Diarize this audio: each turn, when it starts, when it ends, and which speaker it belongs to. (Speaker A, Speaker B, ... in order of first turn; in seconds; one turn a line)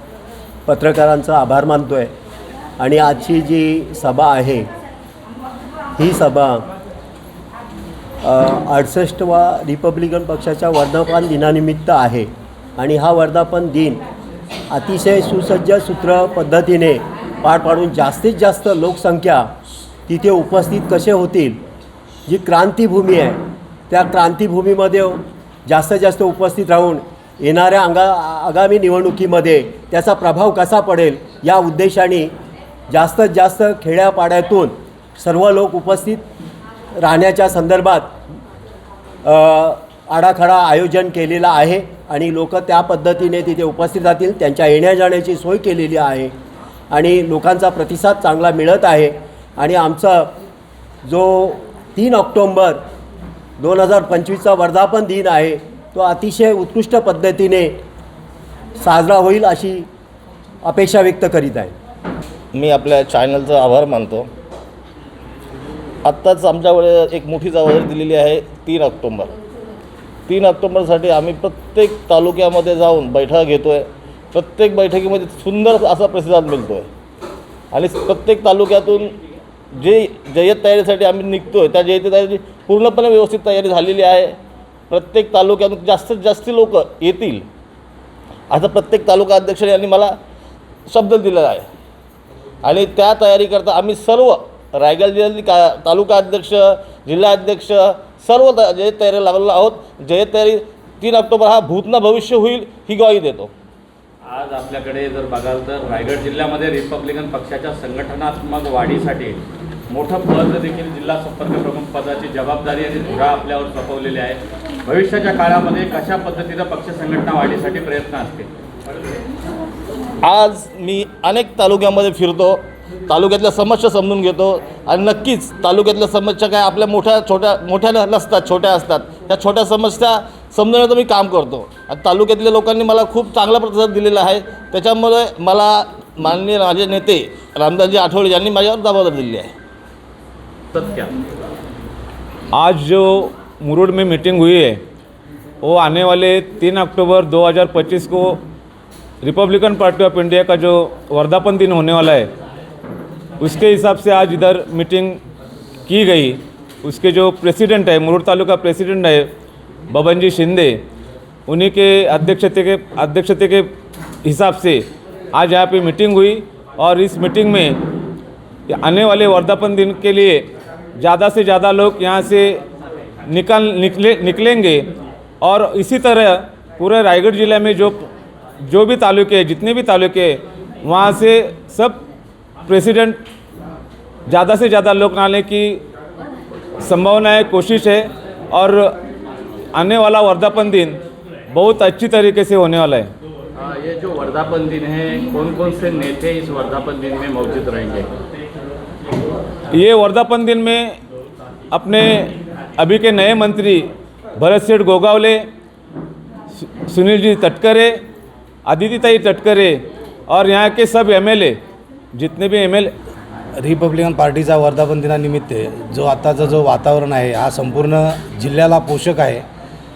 Speaker A: 0.7-2.1
Speaker A: 2.8-4.7
Speaker A: 6.0-6.7
Speaker A: 8.2-14.0
Speaker A: 14.7-19.5
Speaker A: 20.1-21.6
Speaker A: 22.3-32.3
Speaker A: 32.9-36.2
Speaker A: 37.0-38.1
Speaker A: 39.2-46.3
Speaker A: 46.9-50.4
Speaker A: 51.0-52.8
Speaker A: 53.6-57.8
Speaker A: 58.8-59.9
Speaker A: 60.6-61.7
Speaker B: 62.5-64.3
Speaker B: 66.0-69.3
Speaker B: 70.3-76.9
Speaker B: 77.7-79.1
Speaker B: 79.7-84.4
Speaker B: 84.9-87.5
Speaker B: 88.5-90.2
Speaker B: 90.9-91.7
Speaker B: 92.6-103.5
Speaker C: 104.3-109.4
Speaker C: 109.9-118.5
Speaker B: 120.2-139.5
Speaker C: 140.8-141.1
Speaker D: 142.5-144.8
Speaker D: 145.6-148.4
Speaker D: 149.2-152.3
Speaker D: 153.4-155.2
Speaker D: 155.9-159.3
Speaker D: 159.9-160.8
Speaker D: 161.5-163.7
Speaker D: 164.2-167.8
Speaker D: 168.7-172.6
Speaker D: 173.3-174.9
Speaker D: 175.4-178.1
Speaker D: 178.7-182.0
Speaker D: 182.7-183.2
Speaker D: 184.3-185.8
Speaker D: 186.8-188.9
Speaker D: 189.8-191.0
Speaker D: 191.5-193.1
Speaker C: 193.6-198.1
Speaker D: 199.7-201.0
Speaker D: 201.7-205.4
Speaker D: 206.6-208.0
Speaker D: 208.7-211.6
Speaker D: 212.2-212.9
Speaker E: 213.6-219.4